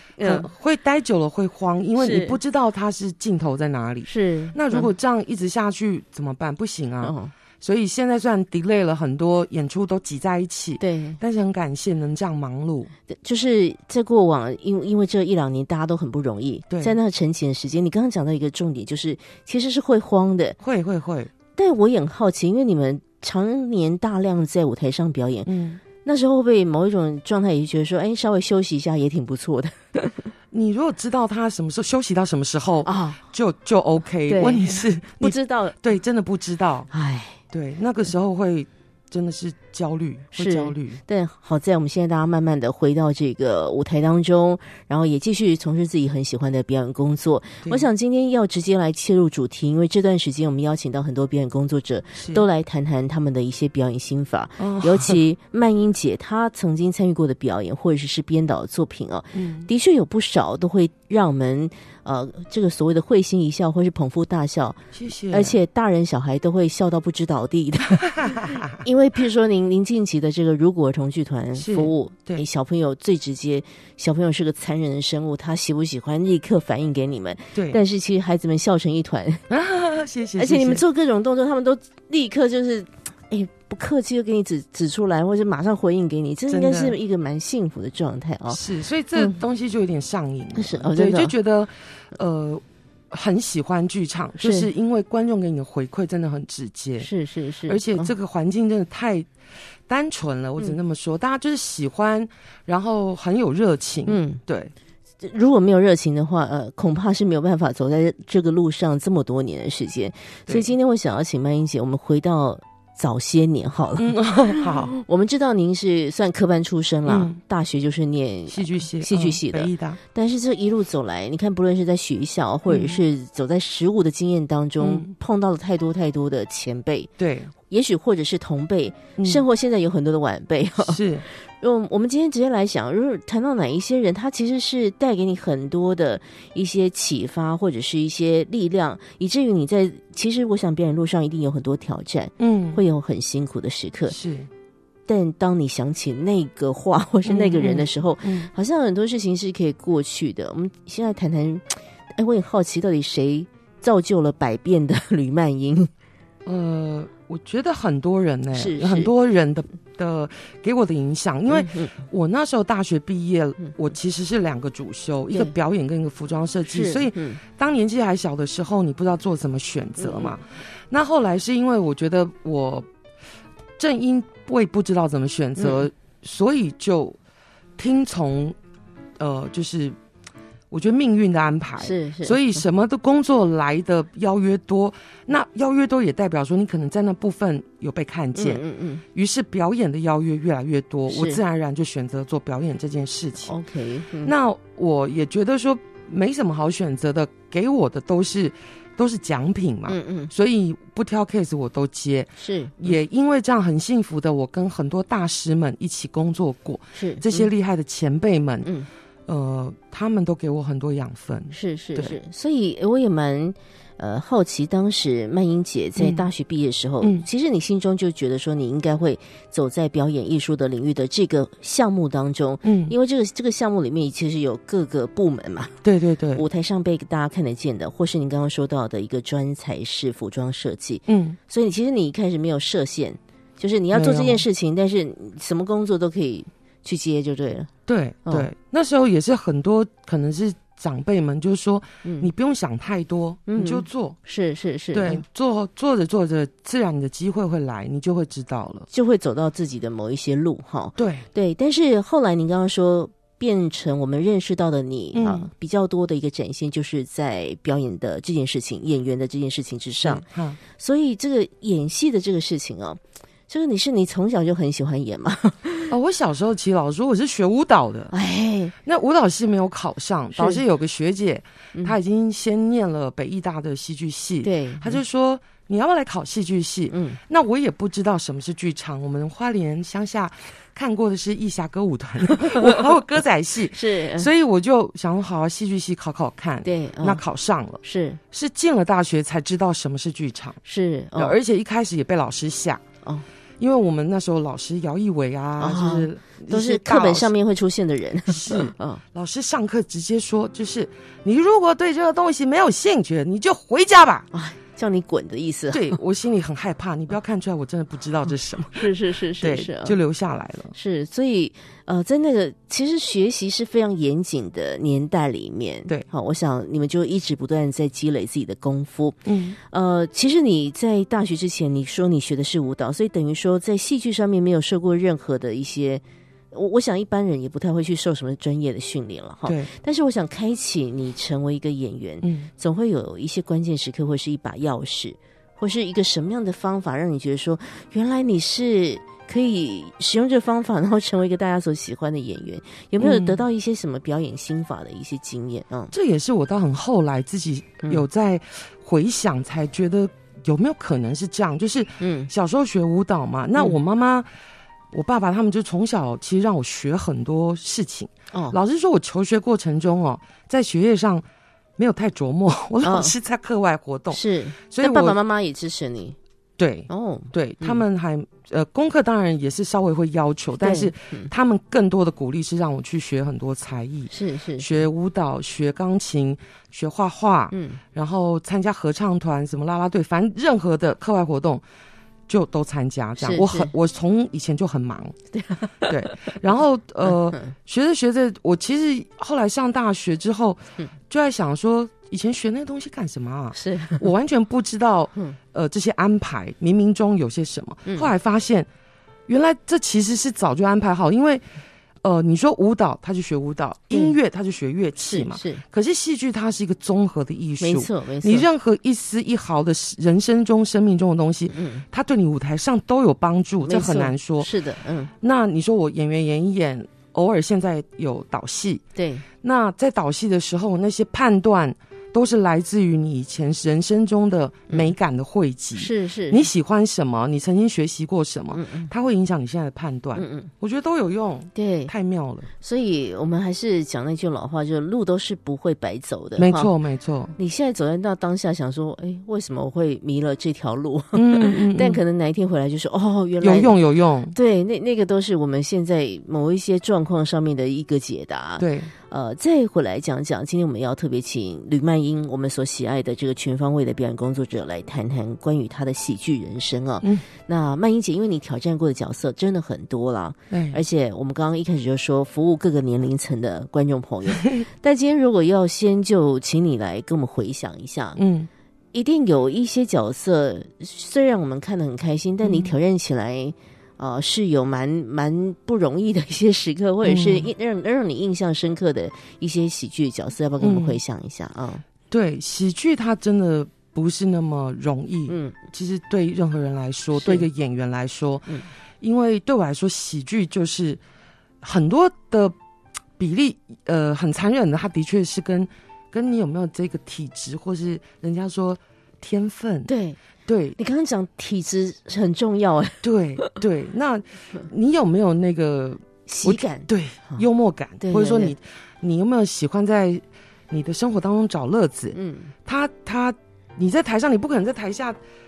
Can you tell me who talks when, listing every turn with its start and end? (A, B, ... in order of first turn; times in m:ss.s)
0:00.2-0:00.5 A
0:00.2-0:12.9 B
0:02.0-0:02.4 A
0:04.0-0:04.9 A
0:07.0-0:07.3 A
0:10.8-0:11.2 A
0:13.1-0:20.6 A
0:16.7-0:17.0 B
0:20.6-0:21.3 B
0:21.6-0:25.5 A
0:25.4-0:25.8 B
0:26.0-0:30.3 A
0:30.5-0:36.9 B
0:32.8-0:33.2 A
0:34.3-0:35.8 A
0:36.9-0:37.4 A
0:37.5-0:41.0 B
0:40.3-1:19.4 A
0:52.2-0:52.4 B
0:54.6-0:55.2 B
0:59.3-0:59.7 B
1:04.9-1:05.6 B
1:08.0-1:08.8 B
1:11.6-1:12.4 B
1:17.5-1:17.8 B
1:19.5-1:20.8 B
1:20.4-1:28.6 A
1:26.5-1:27.0 B
1:28.5-1:37.1 B
1:30.6-1:31.3 A
1:34.4-1:34.7 A
1:37.0-1:38.1 A
1:37.7-1:39.3 B
1:39.9-1:44.7 B
1:44.1-1:44.4 A
1:45.2-2:07.1 A
1:54.0-1:54.9 B
1:57.1-1:57.4 B
1:58.5-2:00.0 B
2:02.7-2:03.0 B
2:04.8-2:05.1 B
2:07.2-2:07.5 B
2:07.7-2:24.2 A
2:09.2-2:09.4 B
2:10.8-2:11.2 B
2:22.4-2:22.8 B
2:24.1-2:24.5 B
2:25.1-2:35.9 A
2:27.2-2:28.5 B
2:36.4-2:52.9 B
2:38.5-2:39.1 A
2:41.5-2:42.0 A
2:46.7-2:47.4 A
2:50.0-2:50.3 A
2:53.8-2:57.2 B
2:55.6-2:55.8 A
2:57.8-2:58.6 B
2:59.2-3:00.0 B
3:00.7-3:13.6 B
3:01.8-3:02.6 A
3:08.3-3:09.0 A
3:11.1-3:11.4 A
3:13.5-3:14.3 A
3:14.2-3:28.7 B
3:19.9-3:20.3 A
3:22.4-3:22.9 A
3:27.0-3:27.5 A
3:29.3-3:32.2 B
3:31.5-3:45.8 A
3:36.0-3:36.3 B
3:37.0-3:37.3 B
3:42.6-3:42.9 B
3:45.8-3:46.4 B
3:46.3-3:57.7 A
3:51.1-3:51.4 B
3:53.9-3:54.4 B
3:57.9-4:04.2 B
4:02.0-4:02.3 A
4:03.5-4:05.2 A
4:04.9-4:08.9 B
4:08.9-4:20.2 A
4:11.0-4:11.3 B
4:15.1-4:15.5 B
4:20.0-4:20.6 B
4:20.8-4:25.9 A
4:25.9-4:28.1 B
4:28.1-4:28.7 A
4:28.8-4:50.6 B
4:30.3-4:30.6 A
4:34.4-4:35.0 A
4:36.9-4:37.2 A
4:42.4-4:42.8 A
4:43.7-4:44.3 A
4:46.6-4:47.2 A
4:47.8-4:48.2 A
4:50.6-4:51.4 A
4:51.1-4:52.8 B
4:53.6-4:57.3 B
4:55.6-4:59.0 A
4:58.3-5:04.3 B
5:04.3-5:06.0 A
5:05.7-5:10.7 B
5:08.7-5:10.0 A
5:10.7-5:19.2 A
5:19.2-5:19.6 B
5:19.7-5:45.9 A
5:29.4-5:29.7 B
5:32.2-5:32.5 B
5:43.0-5:43.4 B
5:45.9-5:54.3 B
5:52.0-5:52.3 A
5:54.9-6:01.2 B
6:01.8-6:05.2 B
6:02.8-6:03.1 A
6:04.1-6:06.2 A
6:06.6-6:21.6 B
6:06.9-6:07.8 A
6:10.6-6:11.3 A
6:14.1-6:14.8 A
6:17.5-6:17.8 A
6:22.3-6:25.2 B
6:23.2-6:23.7 A
6:25.3-6:26.3 A
6:25.8-6:38.7 B
6:27.0-6:27.5 A
6:33.5-6:34.1 A
6:39.3-6:41.4 B
6:42.0-6:54.5 B
6:43.9-6:44.2 A
6:45.0-6:45.6 A
6:47.6-6:48.5 A
6:51.5-6:51.8 A
6:53.6-6:55.1 A
6:55.2-6:58.8 B
6:58.9-6:59.2 A
6:59.4-7:12.5 B
7:05.8-7:06.5 A
7:08.5-7:08.9 A
7:10.1-7:10.5 A
7:11.5-7:11.9 A
7:12.6-7:16.7 A
7:16.4-7:17.3 B
7:17.4-7:23.8 A
7:21.1-7:22.0 B
7:23.4-7:24.3 B
7:24.3-7:48.2 A
7:28.6-7:28.9 B
7:40.5-7:40.8 B
7:48.2-7:48.5 B
7:48.9-8:01.8 A
7:52.4-7:52.7 B
7:57.0-7:57.5 B
8:00.6-8:01.0 B
8:02.1-8:08.5 B
8:05.3-8:05.7 A
8:07.2-8:07.4 A
8:09.0-8:11.0 B
8:11.6-8:12.5 B
8:13.2-8:19.9 B
8:19.9-8:20.2 A
8:20.4-8:20.8 B
8:20.8-8:23.5 A
8:23.0-8:35.2 B
8:26.2-8:27.4 A
8:28.0-8:28.5 A
8:32.1-8:32.5 A